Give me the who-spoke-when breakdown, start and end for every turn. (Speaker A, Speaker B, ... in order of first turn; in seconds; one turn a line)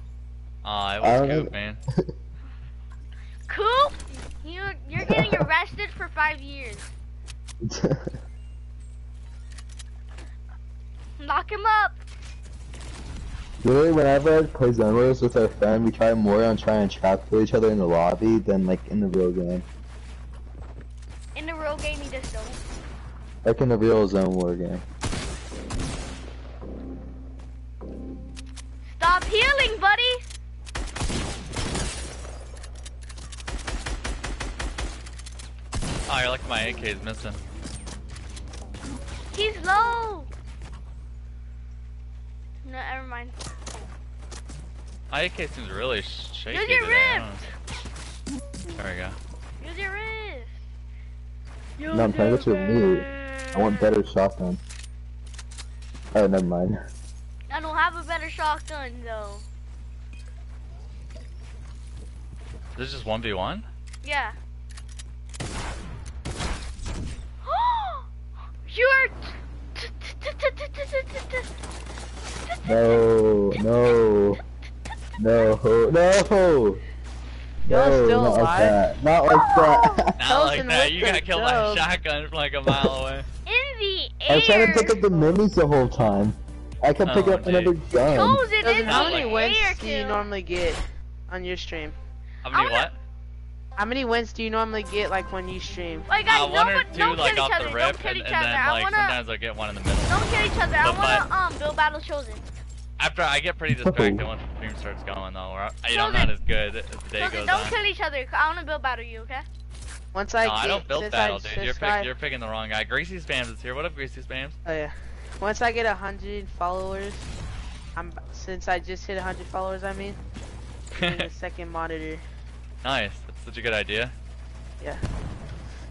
Speaker A: 0.6-1.8
Speaker B: 1.0-1.5
Speaker C: 3.5-6.9
Speaker B: 5.0-5.5
Speaker B: 7.6-8.2
Speaker C: 11.2-12.0
Speaker B: 13.6-19.6
Speaker C: 21.3-22.6
Speaker B: 23.4-24.8
Speaker C: 28.8-30.2
Speaker A: 36.1-37.4
Speaker C: 39.3-40.3
Speaker C: 42.6-43.4
Speaker A: 45.1-47.4
Speaker C: 46.5-47.4
Speaker A: 48.8-49.2
Speaker C: 49.6-50.5
Speaker C: 51.8-53.9
Speaker B: 51.9-54.6
Speaker B: 56.1-56.8
Speaker C: 57.5-59.4
Speaker A: 62.8-63.6
Speaker C: 64.0-64.3
Speaker C: 67.4-68.1
Speaker C: 68.7-71.5
Speaker C: 72.5-73.0
Speaker B: 72.6-74.4
Speaker B: 75.2-76.8
Speaker B: 77.6-80.1
Speaker D: 77.7-78.8
Speaker C: 79.3-80.1
Speaker D: 80.0-81.8
Speaker A: 80.2-83.3
Speaker C: 83.5-85.0
Speaker B: 84.3-88.4
Speaker D: 84.7-85.4
Speaker A: 87.0-87.7
Speaker C: 88.0-90.2
Speaker D: 88.6-92.0
Speaker A: 88.8-89.3
Speaker A: 92.4-93.0
Speaker C: 92.5-92.9
Speaker D: 93.8-96.1
Speaker C: 96.1-99.2
Speaker A: 96.2-101.2
Speaker C: 100.1-102.5
Speaker A: 103.0-107.8
Speaker B: 103.8-104.2
Speaker C: 105.9-106.3
Speaker C: 107.2-109.4
Speaker D: 110.1-112.1
Speaker A: 110.4-114.6
Speaker D: 114.6-117.3
Speaker D: 118.0-120.2
Speaker A: 120.9-121.3
Speaker D: 121.0-122.2
Speaker A: 122.8-124.1